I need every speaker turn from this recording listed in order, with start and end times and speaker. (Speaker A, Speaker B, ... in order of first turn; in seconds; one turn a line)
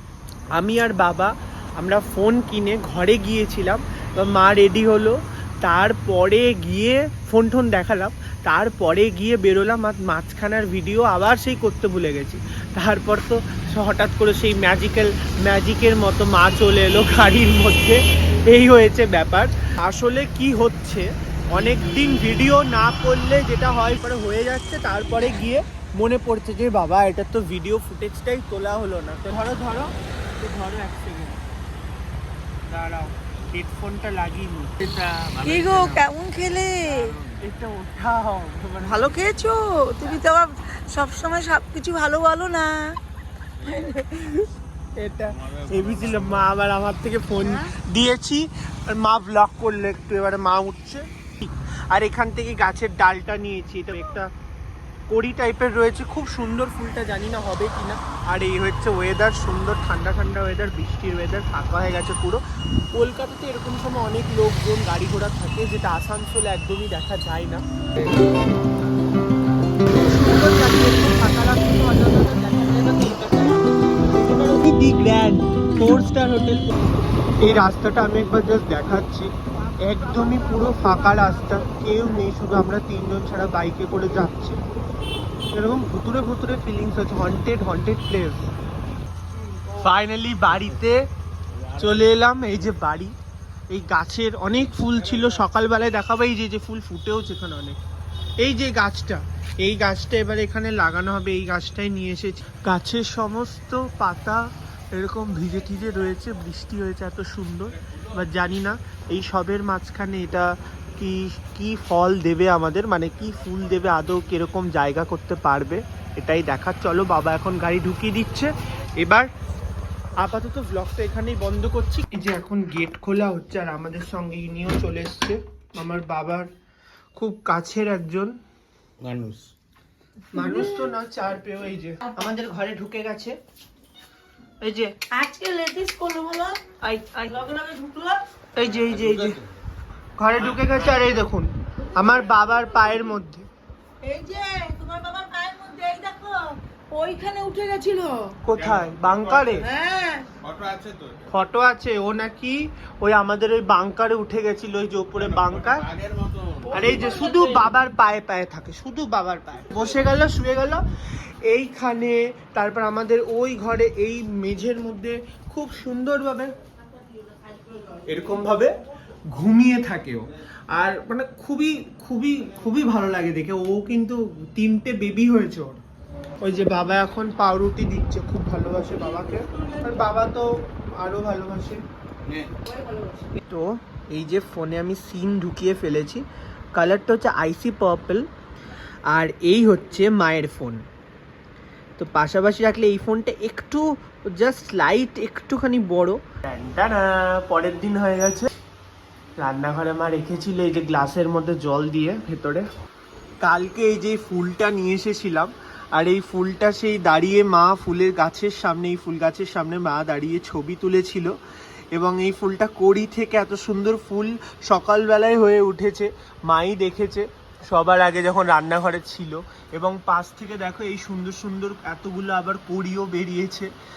Speaker A: 0.5-31.4
Speaker A: 32.7-35.7
Speaker B: 35.2-36.0
Speaker C: 35.4-37.2
Speaker A: 37.4-39.3
Speaker C: 38.8-43.0
Speaker C: 43.7-44.3
Speaker A: 43.8-44.4
Speaker A: 45.0-54.3
Speaker B: 45.5-46.4
Speaker A: 55.1-62.4
Speaker A: 62.9-67.6
Speaker A: 69.9-76.7
Speaker A: 77.4-84.6
Speaker A: 85.5-88.4
Speaker A: 89.7-91.0
Speaker A: 91.8-93.2
Speaker A: 93.7-97.8
Speaker A: 98.4-119.3
Speaker A: 120.2-126.5
Speaker A: 127.2-128.4
Speaker B: 129.0-129.5
Speaker A: 130.3-133.4
Speaker C: 130.4-130.9
Speaker A: 134.6-135.0
Speaker C: 135.1-138.2
Speaker A: 138.6-139.4
Speaker A: 140.2-143.5
Speaker C: 144.0-148.4
Speaker A: 148.4-149.7
Speaker C: 149.5-150.3
Speaker B: 150.4-151.2
Speaker A: 151.3-155.9
Speaker B: 155.9-156.7
Speaker A: 156.7-160.8
Speaker C: 156.7-157.7
Speaker A: 161.4-166.5
Speaker A: 168.1-168.8
Speaker A: 169.3-175.8
Speaker A: 176.4-181.8
Speaker C: 182.7-183.3
Speaker A: 183.4-188.3
Speaker A: 189.1-190.8
Speaker A: 192.0-198.5
Speaker A: 199.4-202.7
Speaker A: 203.4-211.4
Speaker A: 211.9-223.7